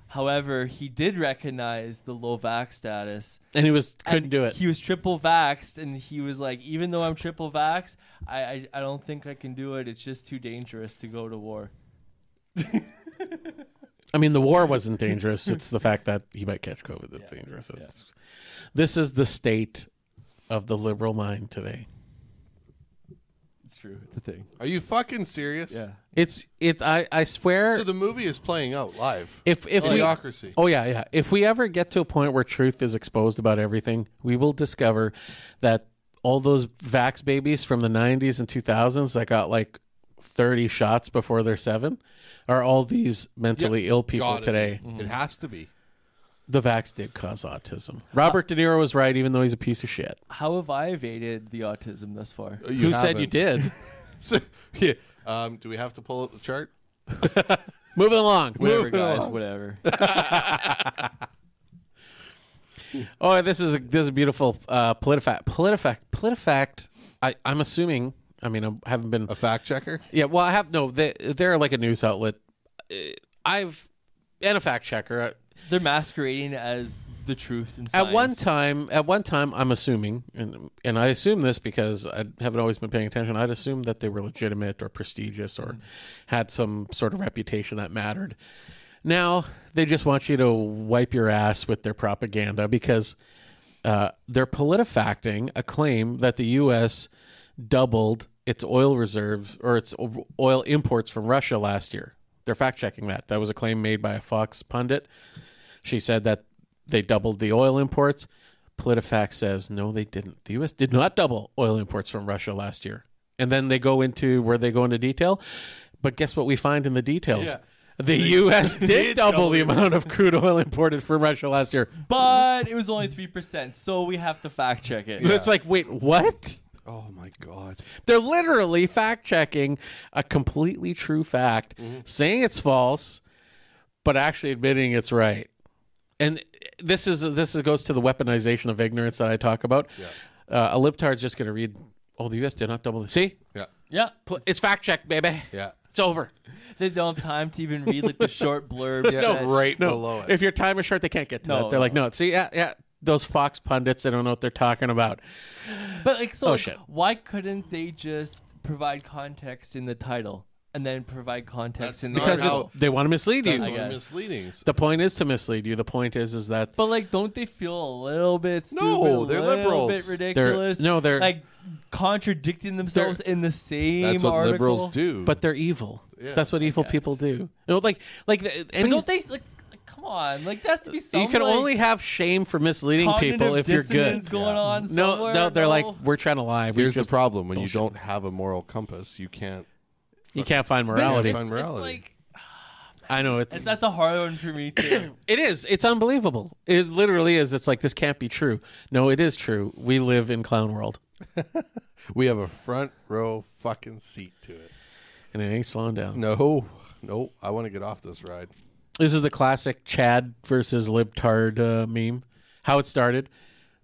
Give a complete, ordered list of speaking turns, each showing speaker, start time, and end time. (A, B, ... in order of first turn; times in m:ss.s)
0:00.1-0:03.4 A
0:03.5-0:04.6 B
0:04.0-0:11.7 A
0:12.6-0:13.5 A
0:14.1-0:18.1 B
0:17.2-0:17.9 A
0:18.7-0:19.9 B
0:20.5-0:21.9 B
0:23.6-0:24.5 A
0:24.6-0:25.8 C
0:25.7-0:26.0 A
0:26.1-0:27.9 B
0:27.7-0:30.6 C
0:29.4-0:44.8 B
0:29.8-0:30.1 A
0:43.6-0:45.7 C
0:44.8-0:45.1 A
0:46.5-0:50.2 B
0:50.3-0:52.6 A
0:52.6-0:56.7 C
0:52.7-0:53.7 B
0:57.1-0:58.9 B
0:58.6-0:59.8 A
0:58.6-1:01.1 C
0:59.9-1:00.8 B
1:02.9-1:09.3 B
1:09.3-1:10.0 C
1:10.1-1:13.9 B
1:14.4-1:15.4 B
1:15.6-1:18.4 A
1:17.9-1:28.4 B
1:29.0-1:33.2 B
1:33.8-1:45.1 B
1:45.8-2:01.9 B
1:57.3-1:57.6 C
1:58.1-1:59.9 C
2:02.1-2:05.3 A
2:05.2-2:05.5 C
2:05.2-2:06.6 B
2:06.8-2:07.9 C
2:08.0-2:13.2 B
2:11.8-2:12.0 C
2:14.0-2:15.5 B
2:16.2-2:23.4 B
2:23.9-2:24.2 A
2:24.3-2:26.3 B
2:26.6-2:29.6 A
2:27.9-2:28.3 B
2:29.0-2:35.2 B
2:29.1-2:30.4 C
2:31.4-2:32.0 A
2:35.9-2:42.7 A
2:36.4-2:36.8 B
2:41.8-2:42.7 C
2:42.1-2:44.0 B
2:43.4-2:44.7 C
2:43.6-2:44.0 A
2:44.6-2:46.7 B
2:46.8-2:54.9 A
2:48.7-2:50.2 C
2:50.3-2:51.4 B
2:54.0-2:55.4 C
2:55.3-2:59.1 B
2:56.2-2:56.5 C
2:56.6-2:57.1 A
2:58.8-3:01.7 A
3:01.1-3:07.9 B
3:03.0-3:06.0 A
3:04.1-3:04.6 C
3:06.7-3:09.6 C
3:10.3-3:11.4 B
3:10.3-3:12.0 C
3:10.9-3:12.2 A
3:13.1-3:13.7 B
3:13.3-3:15.1 A
3:14.8-3:21.0 B
3:21.4-3:24.7 C
3:25.3-3:26.2 B
3:26.1-3:28.5 C
3:29.0-3:33.3 B